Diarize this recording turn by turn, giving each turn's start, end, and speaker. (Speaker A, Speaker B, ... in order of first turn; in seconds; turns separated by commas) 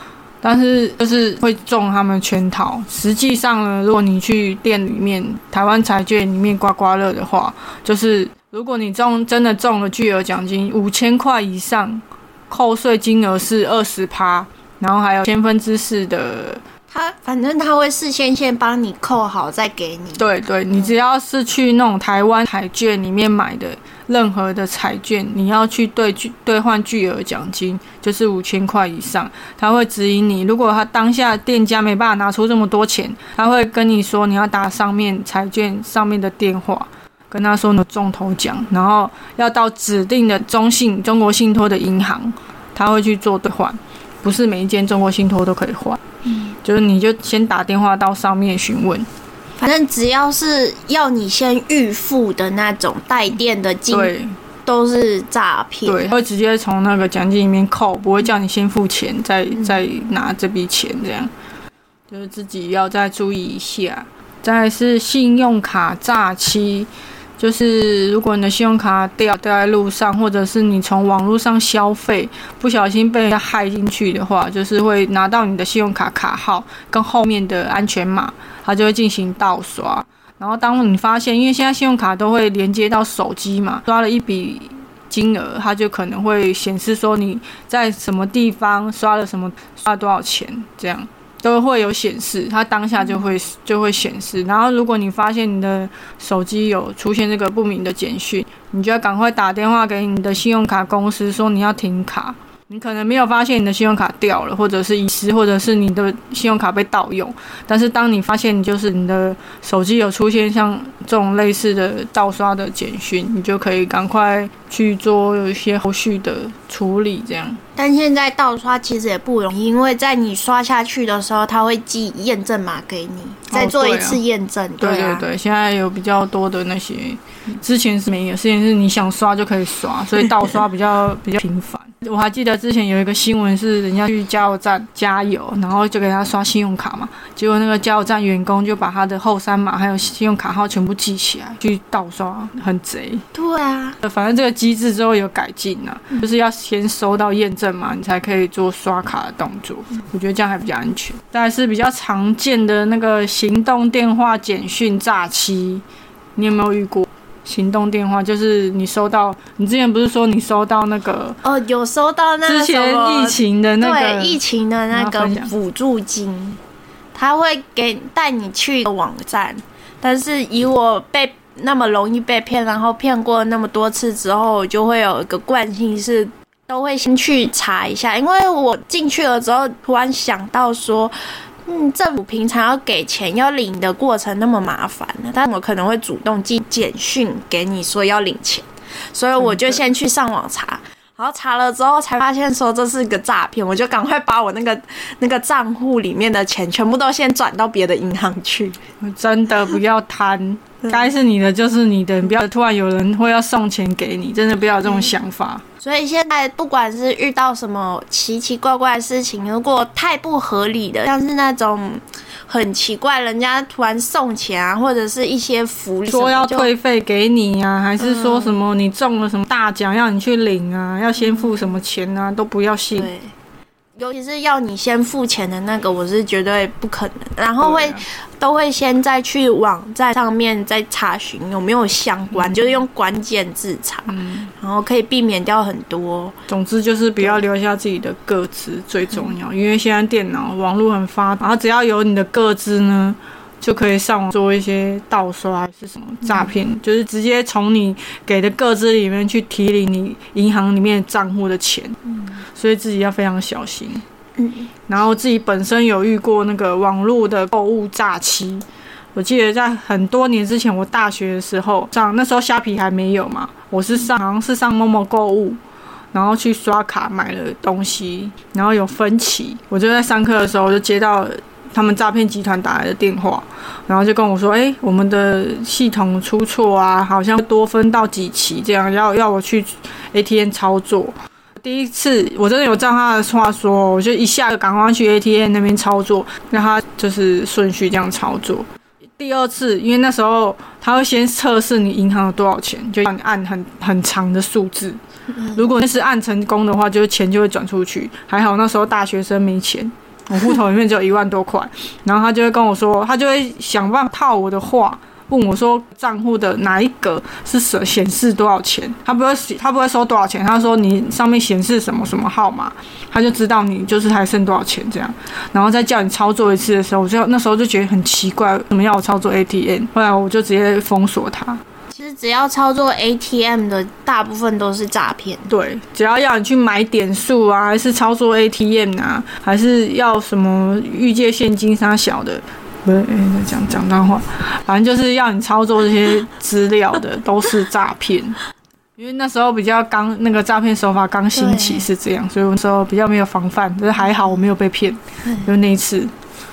Speaker A: 0.4-16.6, Speaker B: 16.9-20.2, Speaker A: 20.2-46.0, Speaker B: 46.2-46.5, Speaker A: 46.6-49.1, Speaker B: 49.6-54.1, Speaker A: 53.9-54.3, Speaker B: 54.6-56.0, Speaker A: 55.9-61.3, Speaker A: 62.1-117.6, Speaker B: 117.8-125.2, Speaker A: 123.5-124.2, Speaker A: 124.8-143.2, Speaker B: 143.3-144.0, Speaker A: 144.0-155.8, Speaker A: 156.3-161.4, Speaker B: 161.4-166.6, Speaker A: 162.4-164.4, Speaker A: 164.9-165.5, Speaker B: 167.1-198.8, Speaker A: 189.4-189.8, Speaker A: 199.0-205.6, Speaker B: 205.8-216.7, Speaker A: 216.1-223.1, Speaker B: 218.0-218.6, Speaker B: 222.9-223.3, Speaker B: 224.0-236.3, Speaker A: 227.6-228.0, Speaker A: 232.3-232.6, Speaker A: 234.1-234.5, Speaker A: 236.5-252.0, Speaker A: 252.5-254.0, Speaker B: 254.4-254.7, Speaker A: 254.9-265.6, Speaker A: 266.1-288.6, Speaker A: 289.2-295.0, Speaker B: 295.3-295.6, Speaker A: 295.5-321.6, Speaker B: 321.9-325.5, Speaker A: 325.5-338.4, Speaker A: 339.0-346.1, Speaker B: 341.3-341.9